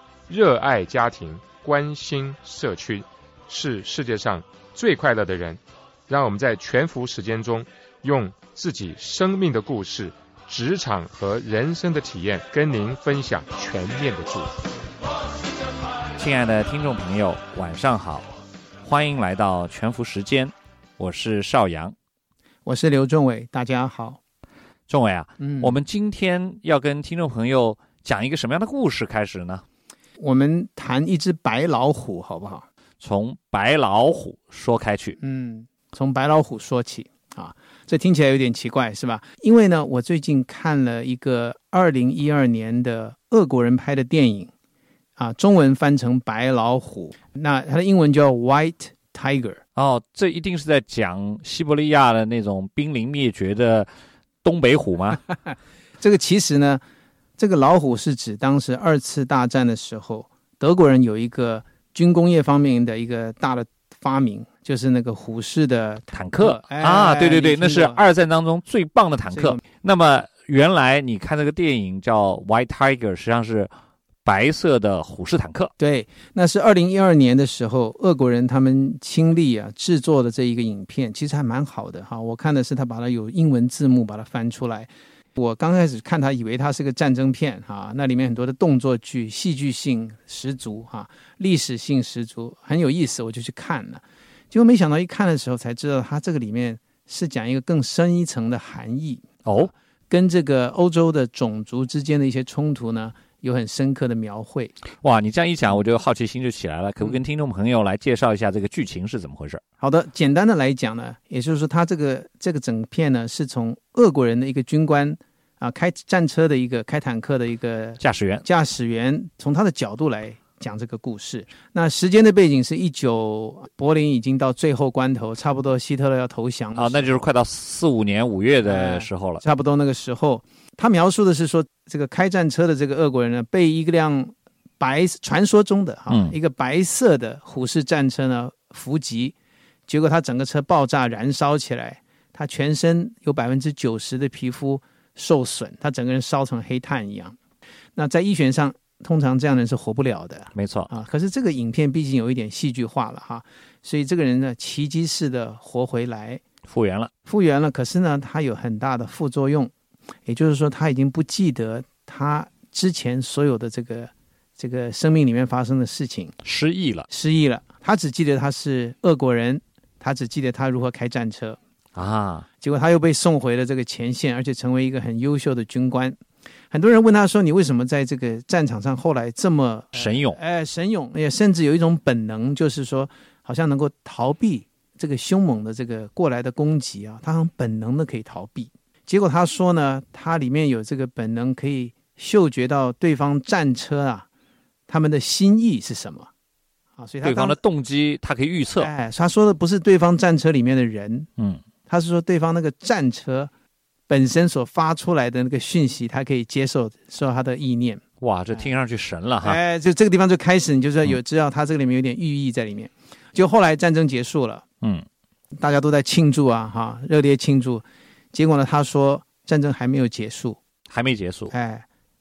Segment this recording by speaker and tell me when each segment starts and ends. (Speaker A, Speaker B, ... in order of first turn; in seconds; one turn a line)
Speaker A: 0.3-14.6
Speaker B: 16.2-18.3
Speaker B: 18.8-21.9
Speaker C: 22.6-24.2
Speaker B: 24.9-29.6
Speaker C: 25.4-25.8
Speaker C: 30.2-32.6
Speaker B: 33.0-35.2
Speaker C: 35.2-44.5
Speaker C: 45.2-49.6
Speaker B: 49.8-53.9
Speaker B: 54.4-55.2
Speaker C: 56.0-56.8
Speaker C: 57.4-68.0
Speaker B: 66.1-73.7
Speaker C: 69.3-69.6
Speaker B: 74.2-75.7
Speaker C: 75.8-99.3
Speaker B: 99.4-99.7
Speaker C: 100.1-104.7
Speaker B: 105.0-109.6
Speaker C: 109.8-127.2
Speaker B: 118.0-118.4
Speaker B: 126.8-129.4
Speaker C: 128.6-139.3
Speaker B: 136.1-136.3
Speaker C: 139.9-147.4
Speaker C: 147.9-156.4
Speaker B: 150.5-150.9
Speaker B: 156.6-157.1
Speaker C: 157.2-159.7
Speaker C: 160.2-166.3
Speaker B: 166.4-167.1
Speaker C: 167.1-171.6
Speaker B: 171.9-172.4
Speaker C: 172.6-176.2
Speaker C: 176.7-194.3
Speaker B: 179.9-180.4
Speaker C: 194.9-196.3
Speaker C: 197.0-197.6
Speaker B: 197.2-198.9
Speaker C: 198.8-201.3
Speaker C: 201.9-203.5
Speaker C: 204.1-208.0
Speaker B: 208.2-209.6
Speaker C: 209.4-214.6
Speaker C: 215.6-220.6
Speaker B: 220.9-221.5
Speaker C: 221.5-221.8